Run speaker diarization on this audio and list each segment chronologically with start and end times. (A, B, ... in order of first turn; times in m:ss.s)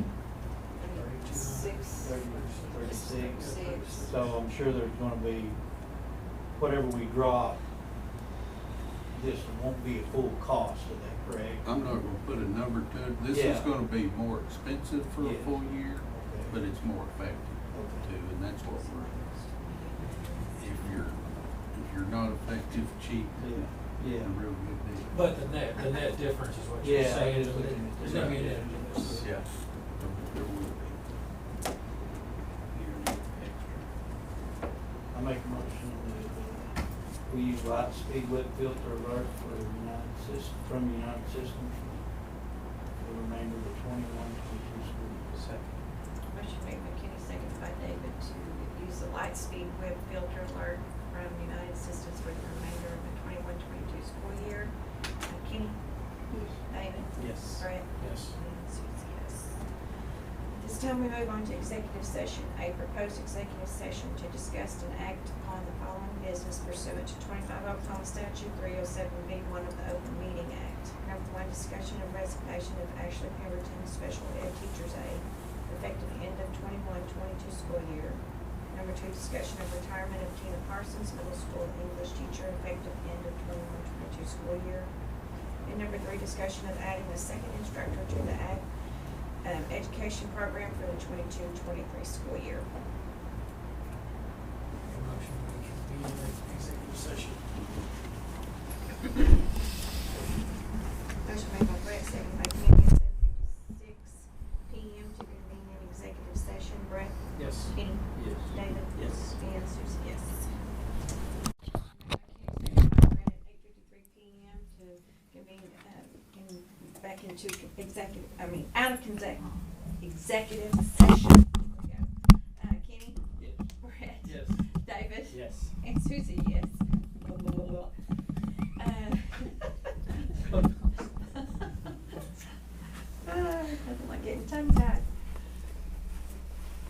0:00.8-0:02.1 A
0:00.8-0:04.3 B
0:02.0-0:05.6 C
0:02.8-0:04.1 A
0:06.6-0:07.6 C
0:09.1-0:11.7 C
0:11.6-0:19.2 D
0:13.3-0:13.7 C
0:15.2-0:16.6 C
0:17.7-0:18.1 C
0:18.6-0:20.5 A
0:20.5-0:21.2 D
0:21.7-0:25.2 D
0:23.4-0:24.4 C
0:25.1-0:29.3 B
0:26.8-0:29.3 C
0:28.0-0:28.4 D
0:29.2-0:31.1 D
0:32.7-0:33.8 D
0:35.1-0:36.7 C
0:37.3-0:42.0 C
0:43.0-0:45.4 C
0:45.4-0:45.8 B
0:46.3-0:54.7 A
0:55.3-0:55.8 A
0:56.3-0:59.6 A
0:57.2-0:58.4 B
1:00.5-1:24.9 A
1:25.7-1:28.6 A
1:29.4-1:32.7 A
1:34.8-1:37.5 B
1:41.2-1:50.5 A
1:47.4-1:49.4 B
1:51.9-2:03.2 A
2:03.8-2:07.9 A
2:04.2-2:04.6 B
2:05.3-2:05.7 B
2:08.8-2:11.7 A
2:13.2-2:15.1 A